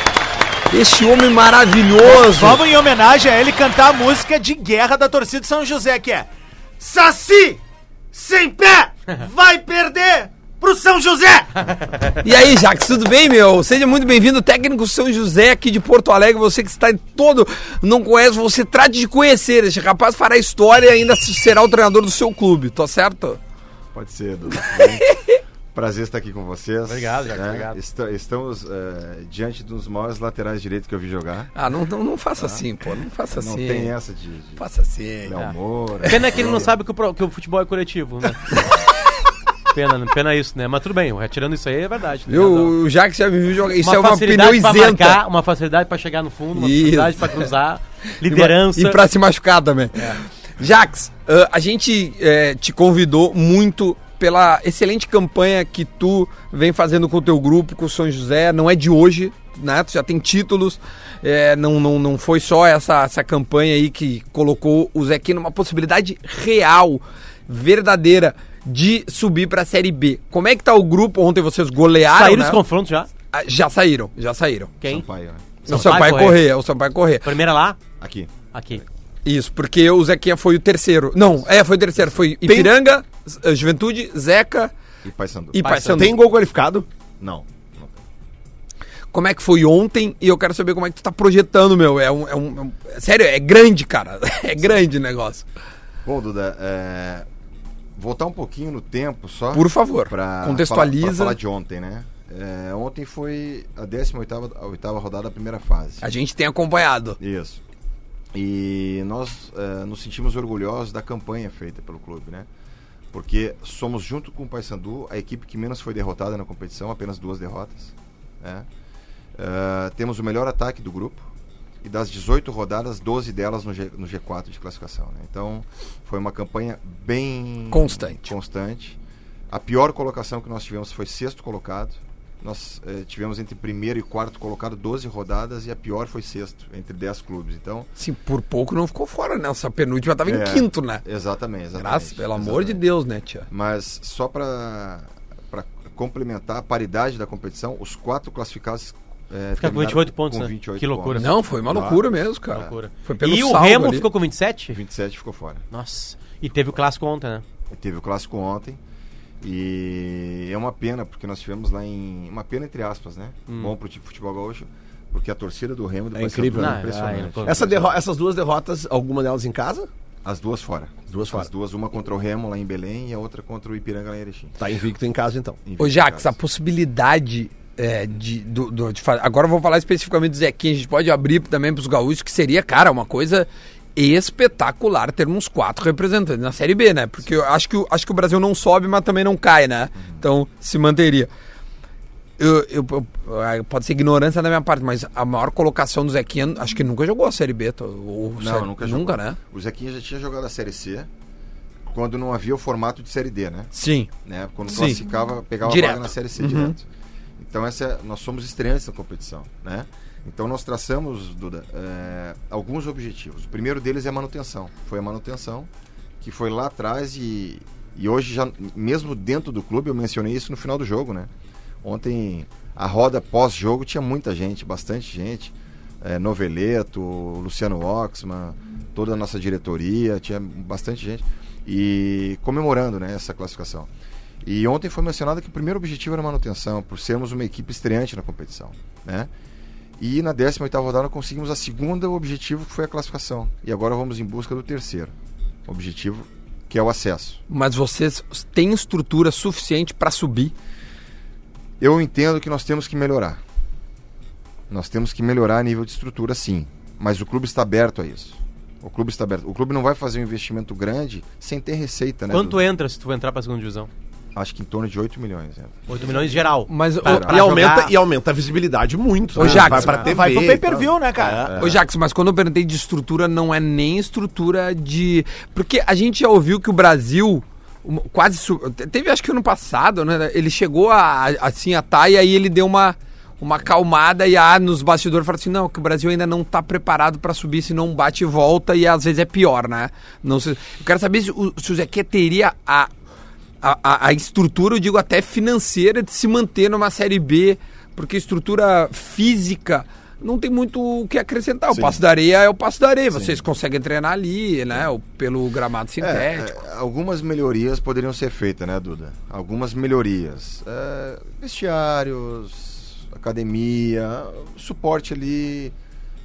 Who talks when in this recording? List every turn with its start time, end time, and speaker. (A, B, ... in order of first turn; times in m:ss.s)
0:00.7-0:02.6 A
0:02.0-0:07.6 B
0:08.1-0:12.2 B
0:12.2-0:23.4 A
0:23.9-0:25.1 C
0:24.6-0:25.4 A
0:25.7-0:31.5 C
0:26.9-0:27.8 D
0:31.6-0:33.9 A
0:32.4-0:32.6 C
0:33.3-0:34.6 C
0:34.6-0:35.4 A
0:35.2-0:36.7 C
0:36.0-0:36.6 A
0:36.1-0:38.6 D
0:39.7-0:42.8 D
0:42.3-0:45.2 A
0:43.8-0:49.0 D
0:46.6-0:47.5 A
0:48.2-1:12.6 A
1:12.1-1:13.1 D
1:13.3-1:14.7 A
1:14.8-1:15.8 C
1:15.6-1:16.4 D
1:15.7-1:17.3 A
1:17.2-1:17.8 D
1:18.0-1:18.3 C
1:18.5-1:18.8 D
1:19.2-1:24.7 A
1:22.4-1:22.7 E
1:25.0-1:25.7 C
1:25.5-1:26.2 A
1:25.6-1:26.1 D
1:25.9-1:26.9 E
1:27.2-1:28.0 C
1:29.1-1:35.5 A
1:36.0-1:37.3 C
1:38.0-1:46.0 C
1:39.5-1:41.4 A
1:46.0-1:47.2 A
1:47.2-1:47.6 C
1:48.3-1:52.5 C
1:53.1-1:58.7 C
1:59.4-2:01.3 C
2:01.8-2:09.0 C
2:07.7-2:08.3 A
2:09.5-2:17.9 C
2:18.0-2:21.0 A
2:20.2-2:22.8 C
2:21.8-2:23.5 A
2:23.5-2:32.8 C
2:29.6-2:31.3 D
2:31.1-2:34.1 A
2:32.6-2:34.8 D
2:34.7-2:35.6 C
2:35.7-2:37.4 D
2:37.7-2:38.8 C
2:39.4-2:48.0 C
2:43.5-2:43.7 D
2:46.2-2:46.9 E
2:46.5-2:47.8 D
2:47.4-2:49.9 E
2:50.2-2:54.6 C
2:51.1-2:51.5 E
2:54.6-2:55.6 E
2:55.7-2:56.4 C
2:55.8-3:11.3 A
3:10.0-3:10.2 C
3:12.4-3:19.4 A
3:18.4-3:21.1 C
3:21.9-3:23.7 C
3:23.7-3:24.1 A
3:24.2-3:26.8 C
3:24.7-3:25.0 A
3:25.6-3:26.8 A
3:27.4-3:35.7 C
3:36.2-3:41.3 C
3:41.8-3:53.9 C
3:54.4-3:59.3 C
4:00.0-4:05.1 C
4:05.7-4:07.4 C
4:07.5-4:10.5 A
4:11.8-4:13.4 C
4:14.7-4:22.6 C
4:22.3-4:23.9 D
4:24.4-4:26.5 C
4:25.9-4:27.9 D
4:26.7-4:27.6 A
4:27.0-4:27.4 C
4:27.1-4:31.6 E
4:29.4-4:30.1 A
4:29.4-4:29.9 C
4:30.0-4:31.5 B
4:31.2-4:31.8 C
4:31.6-4:52.9 A
4:53.6-5:06.5 A
5:01.7-5:02.0 C
5:03.1-5:03.4 C
5:06.0-5:15.7 C